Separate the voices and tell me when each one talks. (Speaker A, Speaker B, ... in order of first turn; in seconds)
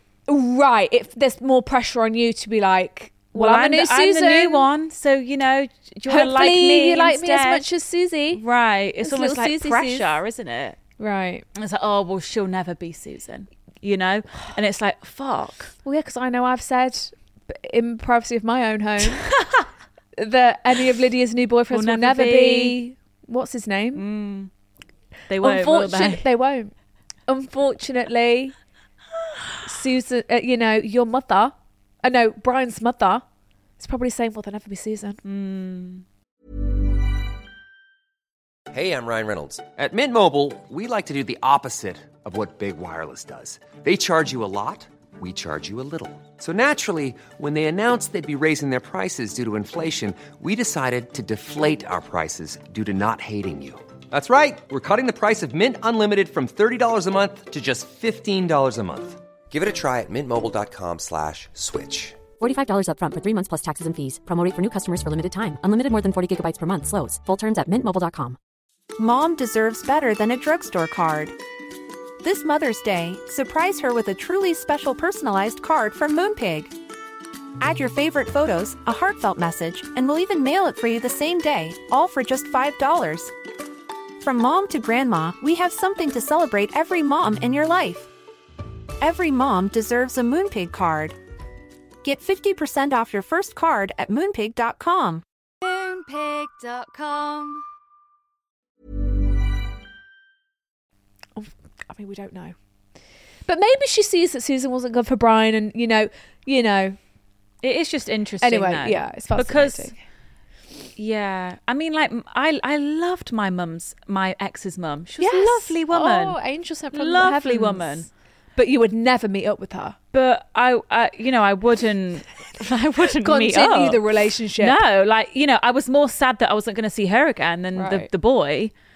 Speaker A: 0.3-4.7, 6.1-8.4, 9.0-10.2, 11.0-11.4, 15.8-19.3, 20.2-24.0, 25.4-26.7, 27.3-28.5, 29.6-31.5, 32.0-33.2, 33.8-35.2, 101.3-102.5, 103.5-107.0, 108.4-110.0, 115.2-120.0, 123.0-124.8, 127.7-128.1
Speaker B: 3.3-7.6, 8.3-10.8, 11.5-15.7, 19.0-19.7, 21.7-22.8, 23.9-24.5, 25.3-26.2, 35.2-36.0, 95.6-97.6, 107.6-109.9, 111.0-116.4, 116.9-118.1, 120.1-124.0, 124.6-128.7
Speaker C: 38.7-62.2
Speaker D: 62.4-68.4
Speaker E: 69.0-71.3, 72.2-76.7, 77.6-83.3, 84.2-88.1, 89.0-91.2, 92.0-95.2